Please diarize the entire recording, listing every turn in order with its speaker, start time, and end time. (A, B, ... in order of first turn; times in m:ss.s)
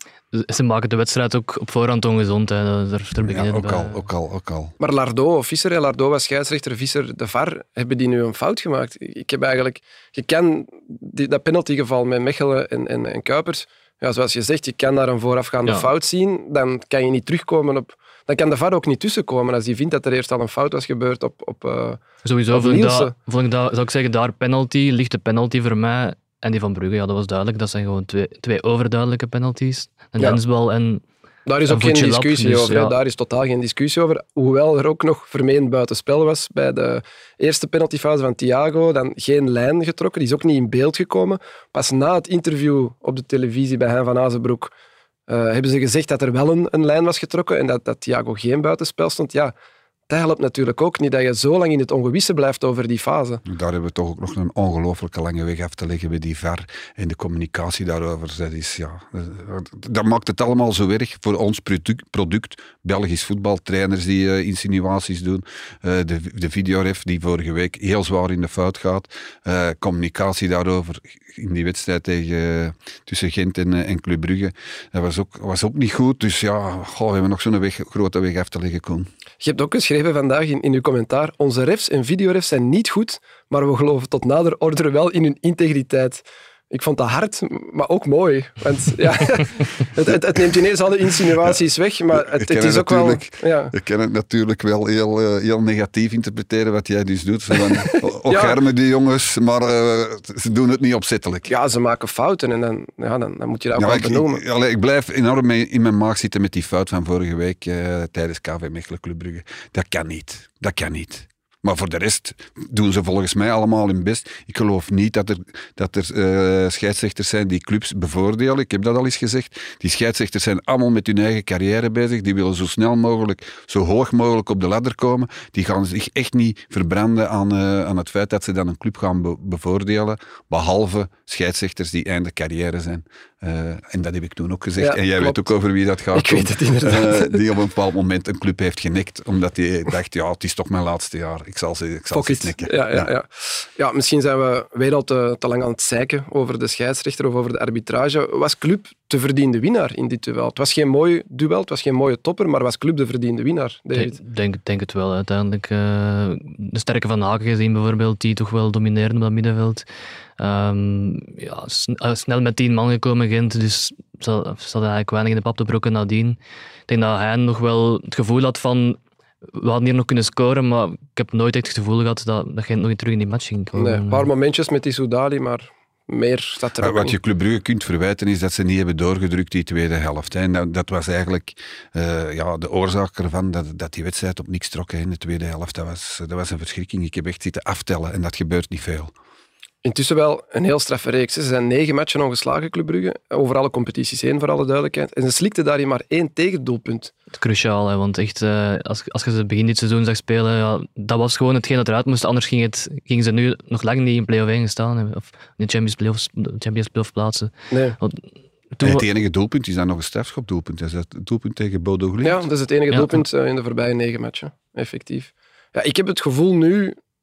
0:00.3-0:04.0 A
0:03.2-0:04.7 B
0:04.8-0:23.1 C
0:22.2-0:31.0 A
0:31.5-0:44.7 C
0:31.7-0:33.0 A
0:45.3-0:49.5 C
0:50.1-0:53.4 C
0:53.4-1:19.1 B
1:19.4-1:33.7 C
1:32.1-1:41.5 B
1:37.5-1:38.6 C
1:41.5-1:44.4 C
1:43.8-2:23.1 B
2:14.8-2:15.5 C
2:16.1-2:17.4 C
2:22.1-2:34.2 C
2:33.9-2:39.9 A
2:40.4-2:54.3 A
2:53.8-2:57.2 C
2:56.8-3:09.1 B
3:09.8-3:17.1 C
3:17.3-3:28.2 A
3:27.7-3:28.0 C
3:28.7-3:29.0 A
3:28.8-3:32.5 B
3:32.2-3:37.0 C
3:32.9-3:33.2 A